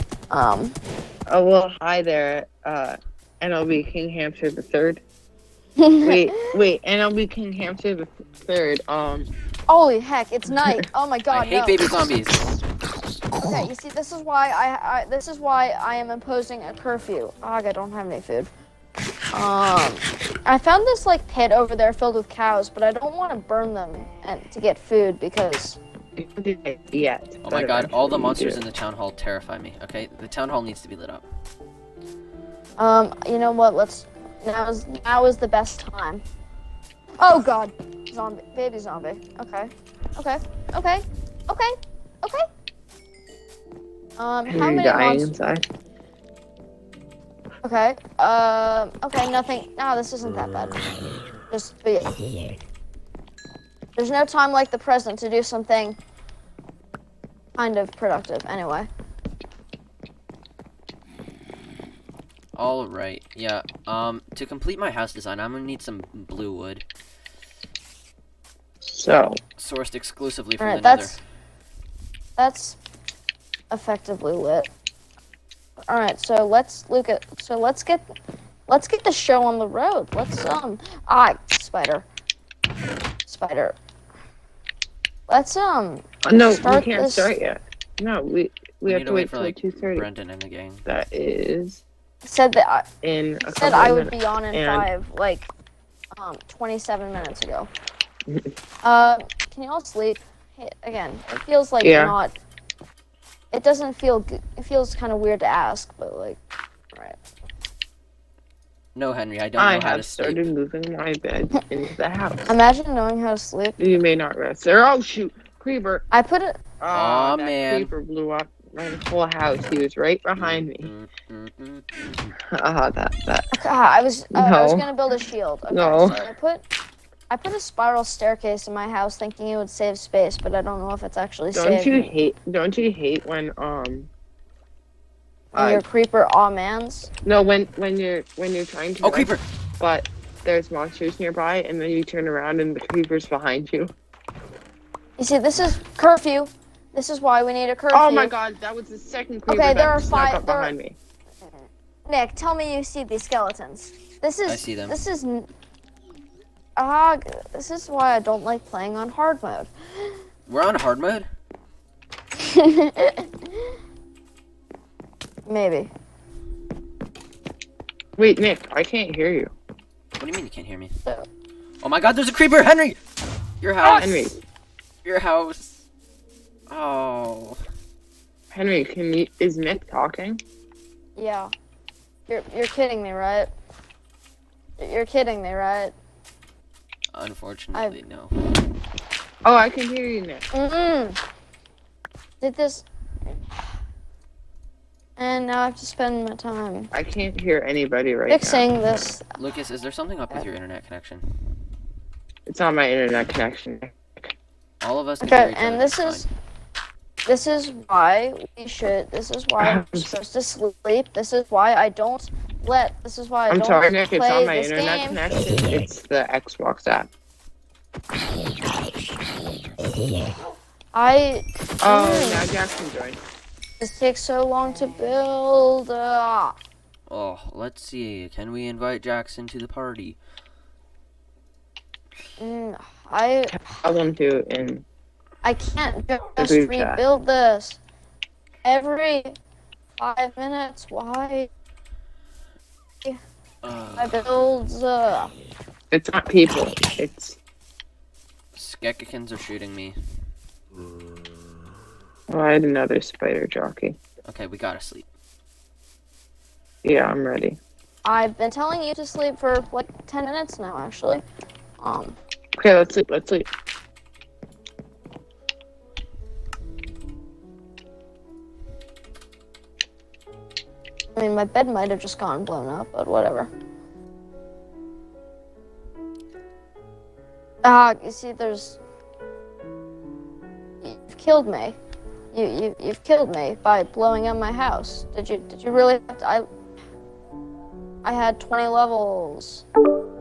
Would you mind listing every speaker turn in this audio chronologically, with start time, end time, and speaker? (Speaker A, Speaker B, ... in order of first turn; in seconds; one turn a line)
Speaker A: 0.3-0.8
Speaker B: 1.3-5.0
Speaker A: 5.8-6.4
Speaker B: 6.0-9.3
Speaker A: 9.7-11.9
Speaker C: 11.3-12.5
Speaker A: 13.4-18.5
Speaker A: 19.3-25.8
Speaker B: 26.2-28.6
Speaker C: 27.4-31.3
Speaker A: 32.8-36.2
Speaker A: 37.2-41.7
Speaker A: 44.2-45.3
Speaker B: 44.5-45.6
Speaker A: 47.6-51.0
Speaker A: 51.5-52.2
Speaker A: 54.0-56.0
Speaker A: 57.6-58.9
Speaker C: 62.6-66.8
Speaker B: 68.9-69.4
Speaker C: 69.6-71.2
Speaker A: 70.6-71.2
Speaker A: 72.4-72.8
Speaker A: 73.7-74.7
Speaker A: 75.9-78.0
Speaker A: 78.7-82.0
Speaker A: 83.3-83.8
Speaker A: 85.3-87.3
Speaker B: 86.2-90.1
Speaker C: 88.9-90.9
Speaker B: 90.9-91.8
Speaker A: 92.2-92.9
Speaker B: 93.0-94.9
Speaker A: 93.5-95.5
Speaker A: 96.2-97.7
Speaker A: 98.8-102.3
Speaker B: 101.8-102.2
Speaker A: 103.5-106.4
Speaker C: 109.0-110.5
Speaker B: 109.6-112.6
Speaker A: 112.5-113.8
Speaker B: 113.8-116.0
Speaker A: 116.1-116.6
Speaker B: 116.8-120.9
Speaker C: 116.9-117.9
Speaker C: 120.4-122.4
Speaker B: 122.5-123.5
Speaker A: 123.5-126.6
Speaker B: 124.3-124.9
Speaker B: 125.7-126.3
Speaker A: 127.3-132.0
Speaker B: 131.5-134.1
Speaker B: 135.5-135.8
Speaker A: 135.5-137.1
Speaker B: 137.2-143.9
Speaker C: 139.0-139.4
Speaker A: 145.2-148.3
Speaker B: 147.9-151.0
Speaker A: 149.5-150.7
Speaker A: 152.1-155.5
Speaker C: 154.5-155.0
Speaker A: 156.8-160.2
Speaker C: 160.5-161.3
Speaker A: 162.4-163.7
Speaker A: 165.5-165.9
Speaker B: 168.2-169.5
Speaker C: 170.2-170.9
Speaker C: 171.8-173.0
Speaker C: 173.6-174.3
Speaker B: 173.9-174.4
Speaker C: 175.1-175.8
Speaker C: 176.7-177.6
Speaker B: 178.5-180.4
Speaker A: 181.2-181.5
Speaker A: 182.3-183.5
Speaker A: 184.8-185.9
Speaker C: 187.1-188.3
Speaker B: 189.4-190.4
Speaker A: 190.5-191.2
Speaker A: 192.4-192.8
Speaker A: 195.2-196.9
Speaker B: 196.9-198.7
Speaker A: 198.3-199.4
Speaker C: 199.4-201.3
Speaker B: 202.5-204.2
Speaker C: 204.8-206.3
Speaker A: 205.2-206.3
Speaker A: 207.2-215.2
Speaker B: 209.6-210.1
Speaker B: 213.5-217.1
Speaker A: 220.9-222.5
Speaker B: 221.8-223.2
Speaker A: 223.8-226.6
Speaker C: 227.1-230.2
Speaker A: 232.4-233.6
Speaker B: 233.5-234.8
Speaker A: 235.4-237.8
Speaker B: 236.4-237.0
Speaker A: 238.6-239.3
Speaker A: 240.0-241.5
Speaker C: 243.6-244.2
Speaker A: 244.0-245.3
Speaker B: 245.9-247.4
Speaker C: 248.5-250.0
Speaker B: 252.3-254.0
Speaker C: 254.3-255.1
Speaker B: 256.8-257.6
Speaker A: 258.1-261.2
Speaker A: 261.8-262.2
Speaker B: 262.6-263.5
Speaker A: 271.1-273.5
Speaker A: 277.6-278.8
Speaker A: 280.8-281.8
Speaker A: 282.3-286.5
Speaker A: 288.0-289.6